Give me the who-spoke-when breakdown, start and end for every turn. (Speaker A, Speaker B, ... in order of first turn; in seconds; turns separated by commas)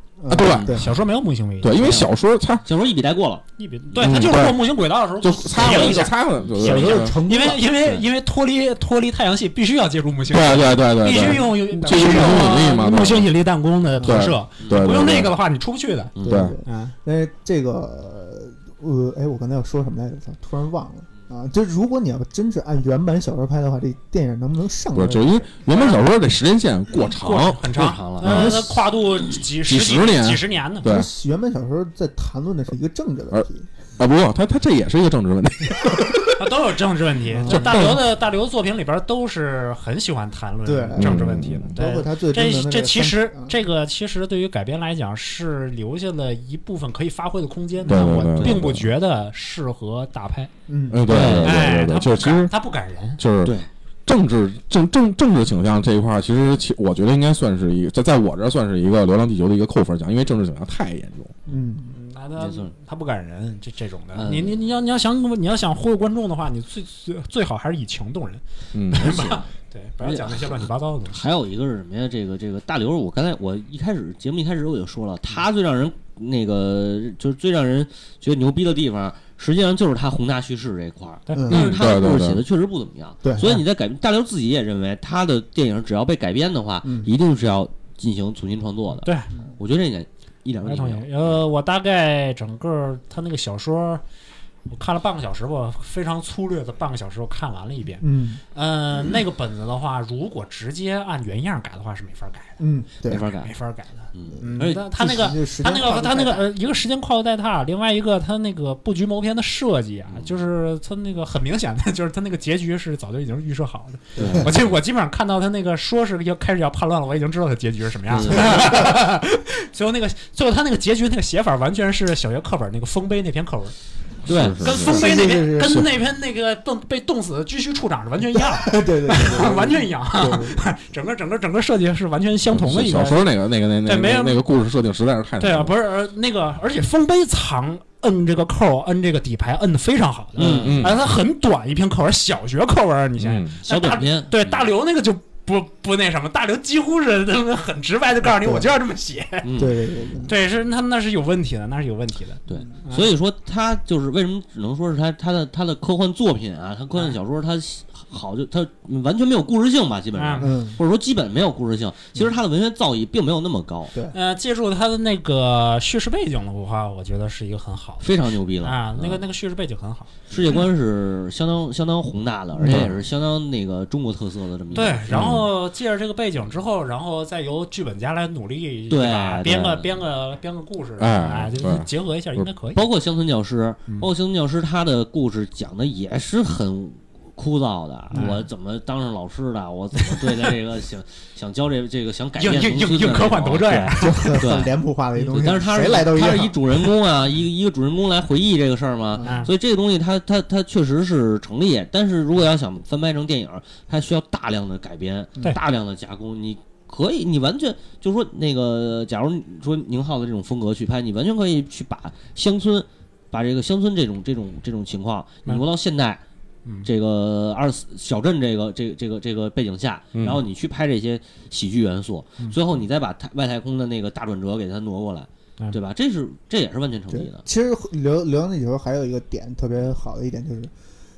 Speaker A: 0.2-0.9, Speaker B: 0.3-0.8, Speaker C: 0.4-0.7, Speaker D: 0.7-1.9, Speaker B: 1.6-2.6, Speaker C: 1.8-2.1, Speaker C: 2.6-4.2, Speaker D: 3.6-16.9, Speaker B: 4.0-4.6, Speaker B: 5.2-7.2, Speaker A: 6.6-7.7, Speaker B: 10.3-13.3, Speaker A: 11.2-12.6, Speaker A: 14.0-14.3, Speaker B: 14.0-15.3, Speaker C: 14.6-14.9, Speaker C: 16.1-16.4, Speaker B: 16.2-16.6, Speaker A: 16.2-25.5, Speaker B: 24.9-27.7, Speaker D: 27.1-30.9, Speaker C: 27.2-28.5, Speaker B: 28.2-28.8, Speaker B: 29.6-31.1, Speaker A: 30.8-33.7, Speaker B: 34.0-36.4, Speaker D: 36.4-50.5, Speaker A: 37.3-37.9, Speaker B: 37.5-38.0, Speaker A: 40.6-43.5, Speaker B: 41.0-41.7, Speaker A: 47.9-48.2, Speaker B: 47.9-48.9, Speaker A: 50.7-51.1, Speaker B: 50.9-52.5, Speaker C: 51.1-51.5, Speaker D: 51.2-53.2, Speaker B: 53.2-53.5, Speaker C: 53.4-53.7, Speaker B: 54.0-61.3, Speaker A: 61.5-62.0, Speaker D: 61.9-71.3, Speaker C: 62.4-62.7, Speaker C: 64.1-64.5, Speaker B: 68.7-69.2, Speaker C: 69.0-69.5, Speaker C: 70.0-91.3, Speaker A: 81.3-81.8, Speaker B: 81.5-82.4, Speaker A: 83.2-83.5, Speaker A: 86.8-87.1, Speaker D: 89.0-89.3, Speaker D: 90.7-94.0, Speaker D: 94.7-102.6, Speaker A: 98.0-98.4, Speaker A: 102.6-103.2, Speaker C: 103.1-103.5, Speaker D: 103.4-123.7, Speaker C: 104.1-104.8, Speaker A: 104.4-106.5, Speaker C: 114.2-114.5, Speaker A: 114.2-114.5, Speaker C: 118.1-118.8, Speaker A: 118.3-119.0, Speaker C: 124.2-124.6, Speaker B: 124.3-125.1, Speaker D: 124.6-133.3, Speaker A: 124.6-125.8, Speaker A: 128.3-130.6, Speaker B: 132.5-135.7, Speaker D: 133.8-134.4, Speaker D: 135.4-149.5, Speaker C: 140.3-140.8, Speaker B: 140.6-141.0, Speaker B: 143.2-143.5, Speaker C: 143.6-144.7, Speaker A: 148.4-148.7, Speaker C: 149.4-150.2, Speaker A: 149.6-150.4, Speaker D: 150.2-153.1, Speaker C: 152.5-163.9, Speaker D: 160.1-160.5, Speaker A: 160.4-160.8, Speaker D: 164.1-168.1, Speaker C: 168.0-169.2, Speaker D: 168.6-170.6, Speaker C: 170.3-175.0, Speaker A: 172.6-172.9, Speaker B: 172.7-172.9, Speaker D: 174.7-182.8, Speaker B: 175.1-175.5, Speaker C: 178.9-179.9, Speaker B: 181.0-182.5, Speaker C: 182.7-216.2, Speaker D: 188.1-188.4, Speaker D: 190.1-190.5, Speaker D: 192.3-194.4, Speaker A: 194.0-196.9, Speaker A: 199.1-199.5, Speaker D: 199.2-199.5, Speaker C: 216.8-227.4, Speaker B: 220.1-220.4, Speaker A: 227.1-230.7